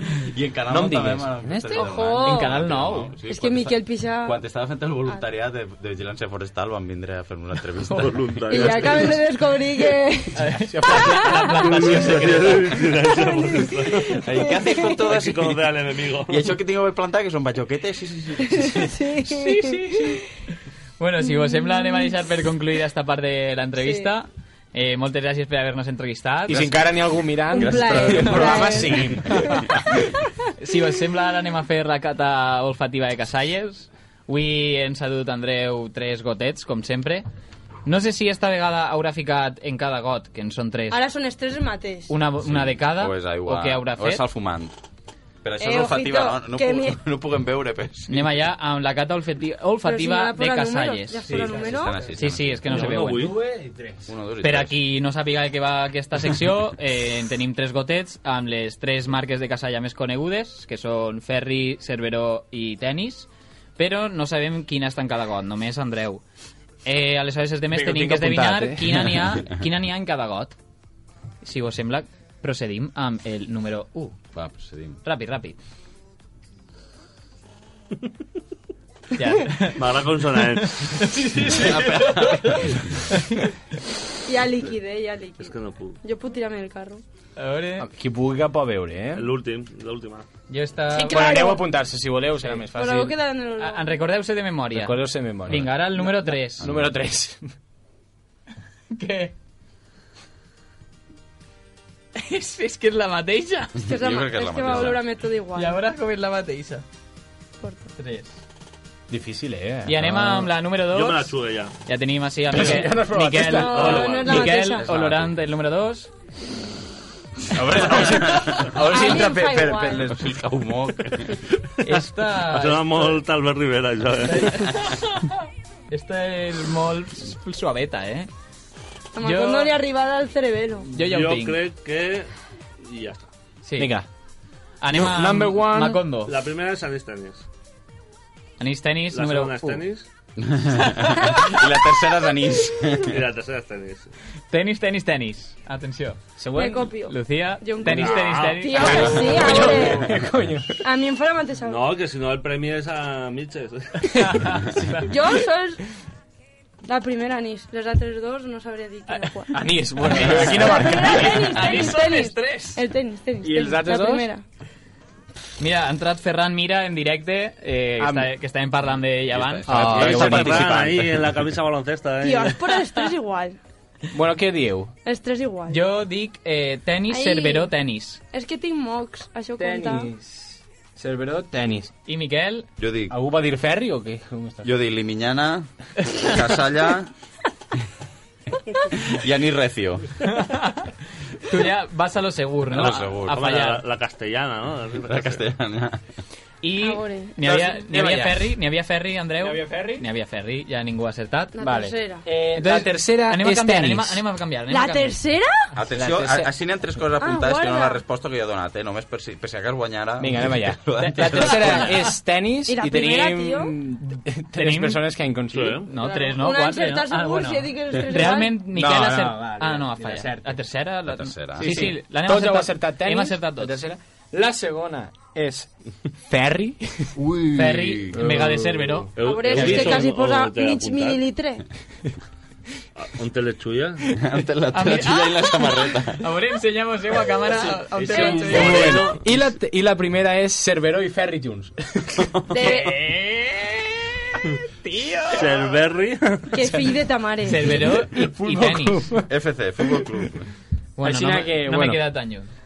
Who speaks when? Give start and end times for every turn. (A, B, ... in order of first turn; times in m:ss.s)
0:00.3-0:08.8 A
0:00.7-0:02.0 B
0:01.7-0:02.6 C
0:02.2-0:03.1 D
0:03.3-0:04.4 C
0:08.0-0:09.1 E
0:08.5-0:11.7 C
0:10.4-0:12.6 D
0:10.4-0:12.5 B
0:12.0-0:14.2 E
0:13.0-0:15.0 C
0:14.2-0:15.6 A
0:15.1-0:16.4 E
0:16.3-0:18.8 A
0:18.5-0:20.2 C
0:19.2-0:20.2 D
0:21.0-0:26.6 D
0:21.3-0:22.1 C
0:23.8-0:24.1 C
0:26.5-0:29.5 B
0:26.5-0:26.9 A
0:27.5-0:29.2 C
0:27.5-0:29.8 A
0:30.6-0:37.2 D
0:37.8-0:41.0 D
0:40.9-0:42.1 C
0:42.1-0:44.2 D
0:42.4-0:44.7 A
0:45.4-0:48.4 A
0:45.6-0:47.0 C
0:48.1-0:51.3 D
0:49.8-0:52.0 C
0:51.3-0:54.1 B
0:51.3-0:53.0 A
0:52.1-0:53.3 D
0:52.7-0:53.4 E
0:54.1-0:54.8 A
0:54.4-1:06.2 D
1:06.8-1:10.5 D
1:07.7-1:09.1 B
1:11.4-1:14.2 D
1:14.3-1:15.0 A
1:15.0-1:15.6 D
1:19.1-1:19.8 D
1:19.8-1:20.9 E
1:20.4-1:23.5 D
1:21.5-1:22.7 A
1:24.2-1:27.0 C
1:25.4-1:26.0 E
1:27.4-1:27.9 D
1:27.8-1:29.3 B
1:29.1-1:30.2 E
1:30.5-1:31.4 D
1:30.9-1:31.6 C
1:31.1-1:33.2 B
1:32.7-1:34.0 C
1:33.6-1:36.6 D
1:34.7-1:37.4 B
1:36.6-1:36.9 A
1:38.9-1:39.3 D
1:42.2-1:43.8 D
1:43.8-1:45.1 A
1:43.8-1:45.8 C
1:45.6-1:46.8 D
1:47.6-1:47.9 C
1:48.0-1:48.3 D
1:49.1-1:50.5 B
1:49.8-1:51.3 D
1:50.9-1:51.7 E
1:51.8-1:56.1 D
1:52.5-1:54.0 B
1:53.4-1:54.9 C
1:53.7-1:54.6 E
1:54.6-1:55.3 A
1:57.5-2:01.4 A
1:57.6-1:59.8 B
1:58.9-2:00.1 C
2:01.8-2:03.2 D
2:01.9-2:04.6 E
2:04.2-2:05.4 D
2:05.9-2:08.3 D
2:09.1-2:10.9 C
2:09.2-2:09.8 D
2:10.9-2:11.6 D
2:11.0-2:12.3 E
2:12.8-2:13.3 E
2:13.6-2:14.0 D
2:13.8-2:14.1 B
2:14.8-2:16.3 D
2:14.9-2:16.0 B
2:16.2-2:17.4 E
2:18.6-2:19.8 D
2:19.1-2:20.1 E
2:20.4-2:23.2 A
2:23.0-2:24.1 E
2:24.5-2:26.2 D
2:26.4-2:26.9 B
2:26.5-2:30.1 C
2:27.1-2:29.9 D
2:27.8-2:29.0 E
2:28.8-2:30.8 B
2:30.8-2:31.8 C
2:31.6-2:34.1 E
2:34.1-2:35.1 D
2:34.2-2:35.1 B
2:35.0-2:35.8 C
2:36.8-2:39.6 C
2:39.5-2:41.7 B
2:40.0-2:42.8 D
2:40.1-2:44.4 C
2:43.4-2:44.3 B
2:45.6-2:49.9 D
2:48.0-2:48.3 B
2:49.3-2:51.2 A
2:49.7-2:50.8 B
2:49.8-2:52.6 E
2:52.2-2:53.6 C
2:54.1-2:54.9 B
2:55.0-2:55.8 C
2:55.7-2:58.2 D
2:57.1-2:57.7 C
2:58.3-3:00.1 C
2:59.6-3:01.9 B
3:02.1-3:02.7 D
3:02.8-3:03.2 A
3:03.1-3:04.7 B
3:04.6-3:07.1 A
3:09.0-3:10.0 A
3:10.3-3:10.9 D
3:11.4-3:13.8 D
3:12.7-3:13.4 A
3:12.8-3:15.4 E
3:15.1-3:16.0 A
3:16.6-3:21.5 D
3:16.8-3:17.3 C
3:17.4-3:18.5 B
3:19.4-3:20.1 B
3:21.5-3:22.2 C
3:21.6-3:24.2 B
3:22.5-3:25.2 D
3:24.7-3:25.7 C
3:25.7-3:32.1 A
3:25.9-3:26.5 B
3:27.2-3:28.0 C
3:30.2-3:35.9 B
3:31.0-3:32.1 D
3:32.7-3:33.7 C
3:34.1-3:35.0 D
3:35.5-3:35.9 E
3:35.9-3:43.8 D
3:36.0-3:38.6 C
3:38.7-3:40.6 B
3:41.1-3:41.9 A
3:41.6-3:45.7 B
3:46.3-3:47.6 B
3:47.4-3:48.2 A
3:47.5-3:49.1 D
3:48.1-3:49.6 B
3:49.2-3:51.2 E
3:49.2-3:51.6 C
3:53.0-3:54.0 E
3:54.1-3:56.2 A
3:54.7-3:59.0 D
3:57.5-4:02.3 B
3:58.0-3:59.2 E
3:58.1-3:58.6 C
4:02.5-4:02.9 C
4:02.6-4:05.4 D
4:05.3-4:06.6 E
4:06.5-4:07.8 C
4:07.4-4:09.1 D
4:07.5-4:09.3 B
4:09.3-4:10.4 A
4:09.8-4:10.3 B
4:11.0-4:12.5 D
4:11.0-4:12.0 B